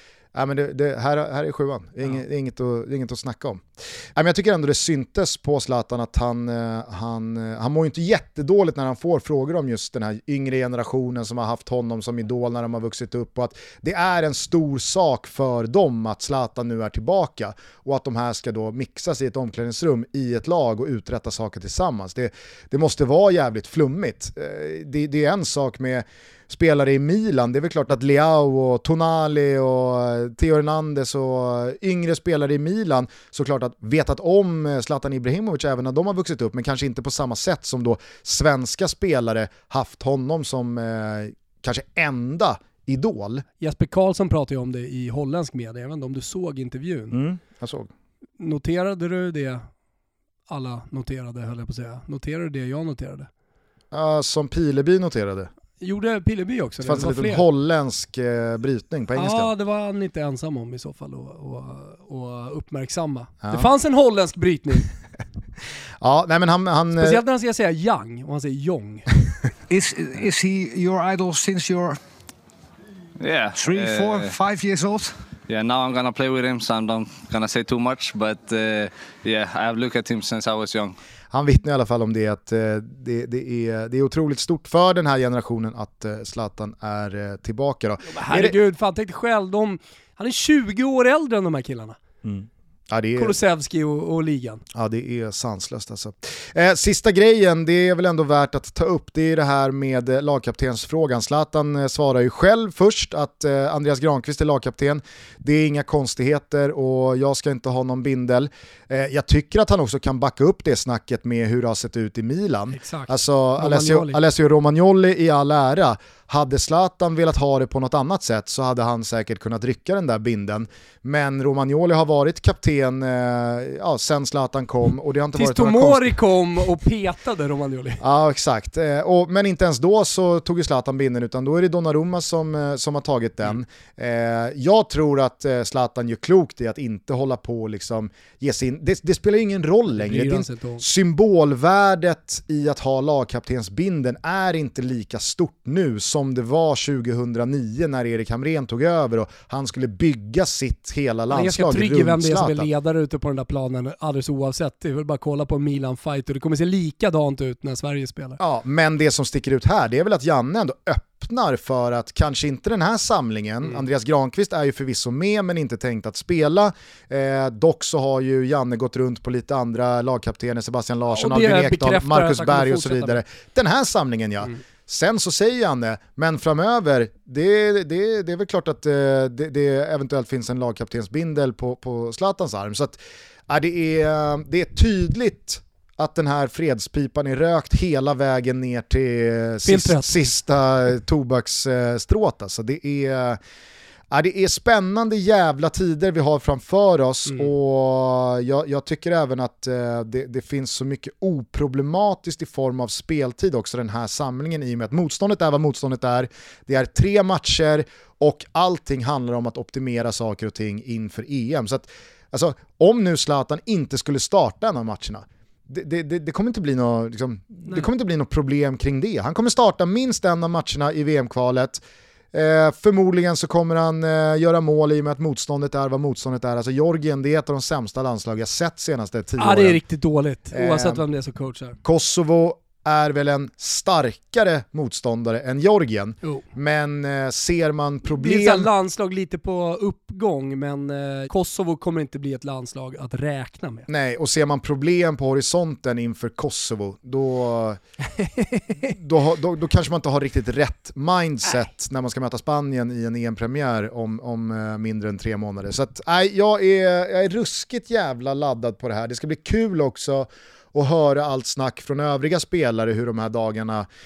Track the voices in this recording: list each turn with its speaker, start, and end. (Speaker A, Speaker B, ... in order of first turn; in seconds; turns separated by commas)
Speaker A: 0.3-43.5, Speaker B: 43.6-47.2, Speaker A: 47.1-47.9, Speaker B: 48.4-49.7, Speaker B: 50.5-53.3, Speaker A: 53.9-55.5, Speaker B: 55.8-57.4, Speaker A: 56.8-59.5, Speaker B: 59.1-64.9, Speaker A: 63.4-63.7, Speaker A: 66.0-67.2, Speaker B: 67.0-69.1, Speaker C: 69.7-72.0, Speaker D: 73.2-74.3, Speaker C: 73.5-75.2, Speaker D: 75.5-81.0, Speaker A: 81.3-88.6, Speaker B: 88.1-92.0, Speaker A: 92.2-93.3, Speaker B: 93.2-94.6, Speaker A: 94.7-126.2, Speaker B: 112.7-114.2, Speaker B: 125.3-128.0, Speaker A: 128.0-152.7, Speaker B: 139.9-140.8, Speaker B: 151.3-158.4, Speaker A: 158.4-193.4, Speaker B: 171.2-173.2, Speaker B: 189.7-190.1, Speaker A: 194.1-229.8, Speaker B: 229.4-231.8, Speaker A: 230.5-231.0, Speaker A: 231.8-238.7, Speaker B: 238.2-243.9, Speaker A: 243.9-247.8, Speaker A: 248.8-263.9